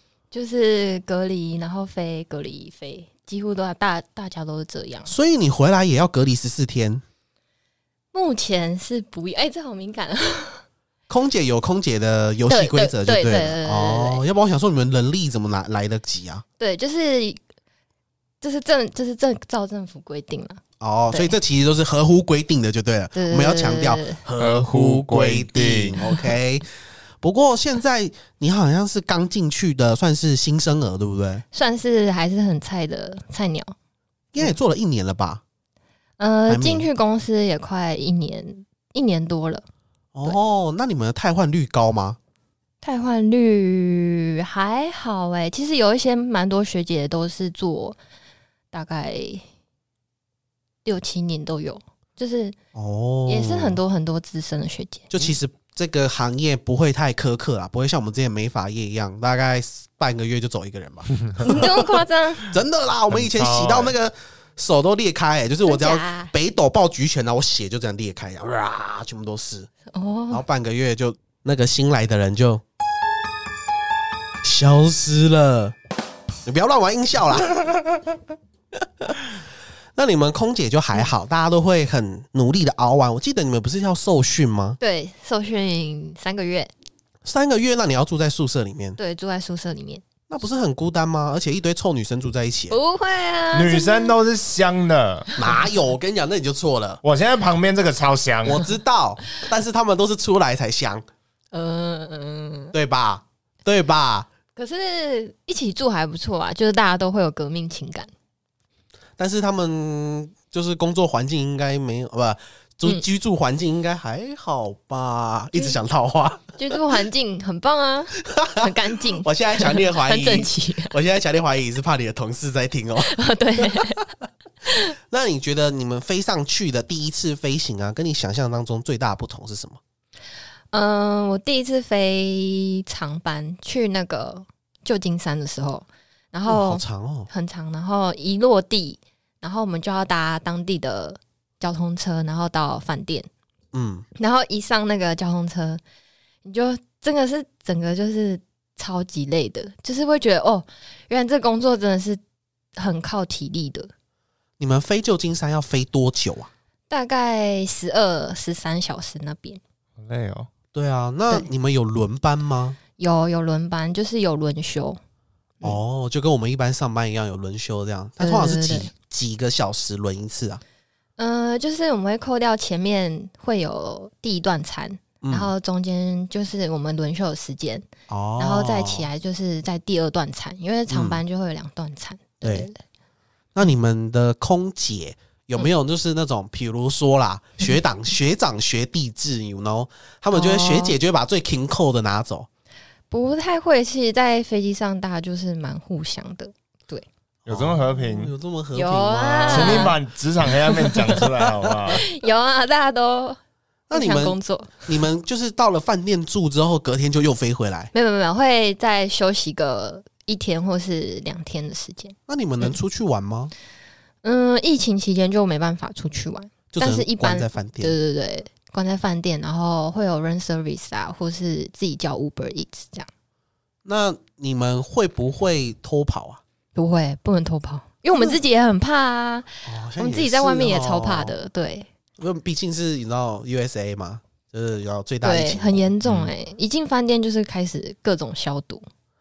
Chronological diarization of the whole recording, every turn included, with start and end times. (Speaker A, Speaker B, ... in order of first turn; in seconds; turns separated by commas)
Speaker A: 0.3-5.1, Speaker B: 5.1-7.0, Speaker A: 8.1-10.6, Speaker B: 11.1-16.4, Speaker A: 12.5-14.2, Speaker A: 16.6-17.4, Speaker A: 18.4-21.3, Speaker B: 20.8-26.7, Speaker A: 23.1-24.2, Speaker C: 24.4-26.0, Speaker B: 27.2-31.4, Speaker A: 31.5-33.7, Speaker B: 34.3-35.4, Speaker A: 36.2-39.6, Speaker B: 36.5-36.9, Speaker B: 40.1-42.2, Speaker A: 42.8-48.0, Speaker A: 48.7-49.4, Speaker A: 50.8-52.6, Speaker B: 52.8-53.8, Speaker A: 53.3-55.1, Speaker B: 55.1-61.8, Speaker A: 61.4-62.5, Speaker B: 62.5-69.7, Speaker C: 63.1-64.0, Speaker A: 65.6-66.3, Speaker A: 69.9-70.4, Speaker B: 70.3-72.6, Speaker B: 74.4-75.8, Speaker B: 76.5-77.6, Speaker B: 80.0-84.8, Speaker A: 84.8-86.7, Speaker B: 87.2-89.0, Speaker A: 89.0-90.0, Speaker B: 90.3-92.8, Speaker A: 92.7-94.1, Speaker C: 93.5-95.3, Speaker A: 95.4-95.7, Speaker B: 95.4-97.0, Speaker C: 97.0-98.7, Speaker B: 98.5-101.0, Speaker A: 101.5-102.7, Speaker B: 102.7-104.3, Speaker A: 104.6-108.1, Speaker B: 109.2-116.5, Speaker A: 116.6-120.9, Speaker B: 118.3-118.6, Speaker B: 119.2-123.2, Speaker A: 123.0-124.0, Speaker A: 124.7-124.9, Speaker B: 125.1-129.8, Speaker A: 130.7-143.3, Speaker B: 136.5-137.3, Speaker B: 143.7-144.0, Speaker A: 144.2-145.8, Speaker A: 146.4-152.2, Speaker A: 152.8-153.9, Speaker B: 154.6-156.5, Speaker A: 156.9-159.6, Speaker C: 160.0-160.5, Speaker B: 160.7-162.8, Speaker A: 163.0-165.0, Speaker B: 165.6-170.6, Speaker A: 168.2-168.9, Speaker A: 171.2-177.8, Speaker B: 175.2-175.5, Speaker B: 178.1-179.1, Speaker A: 178.4-182.8, Speaker B: 180.9-181.2, Speaker B: 182.4-182.7, Speaker B: 183.5-192.5, Speaker A: 190.3-191.0, Speaker A: 193.1-197.1, Speaker C: 197.5-198.3, Speaker B: 197.5-199.9, Speaker A: 198.8-200.0, Speaker C: 199.5-202.0, Speaker B: 201.4-201.9, Speaker A: 201.9-203.4, Speaker B: 203.9-207.9, Speaker A: 203.9-204.9, Speaker A: 207.9-212.7, Speaker B: 212.3-213.5, Speaker A: 214.2-223.1, Speaker B: 216.7-218.0, Speaker B: 223.8-226.4, Speaker A: 226.8-231.9, Speaker B: 228.1-228.4, Speaker B: 229.7-231.3, Speaker B: 232.2-235.9, Speaker A: 235.2-238.8, Speaker C: 236.0-236.3